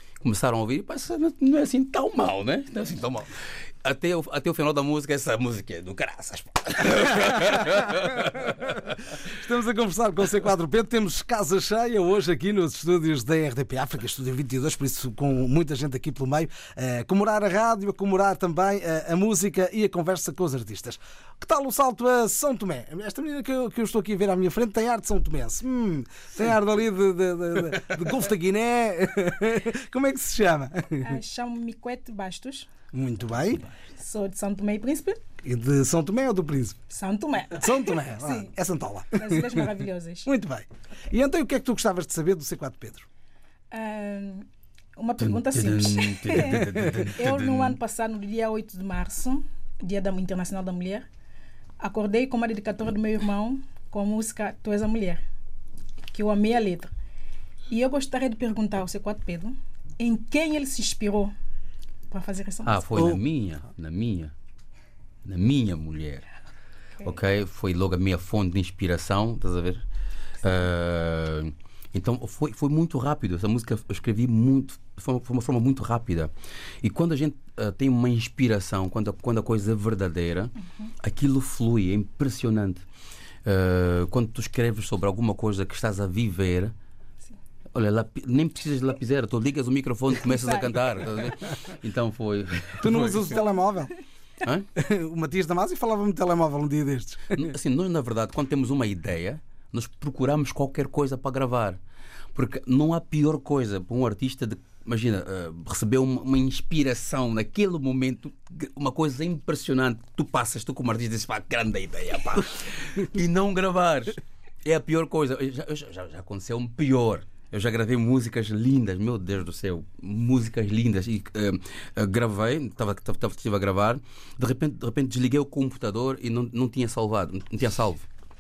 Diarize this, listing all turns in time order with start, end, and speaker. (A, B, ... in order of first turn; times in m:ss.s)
0:00.2-0:09.2 A
0:09.2-0:31.1 B
0:31.0-0:32.7 C
0:32.9-0:33.7 B
0:34.0-0:35.2 C
0:35.4-0:36.8 B
0:36.9-0:38.5 C
0:37.6-0:39.6 B
0:39.2-0:40.3 C
0:40.2-0:43.0 B
0:43.7-0:51.1 C
0:45.2-0:47.8 A
0:51.8-0:55.2 C
0:56.1-0:56.9 C
0:57.7-1:01.3 C
1:02.1-1:03.0 C
1:02.6-1:04.3 A
1:02.9-1:03.2 B
1:05.2-1:06.2 A
1:07.0-1:09.8 A
1:10.4-1:22.8 A
1:23.4-1:26.7 A
1:27.7-1:33.4 A
1:30.4-1:30.7 C
1:32.8-1:33.9 B
1:34.4-1:34.7 A
1:34.7-1:37.4 B
1:37.3-1:41.8 A
1:42.3-2:08.0 A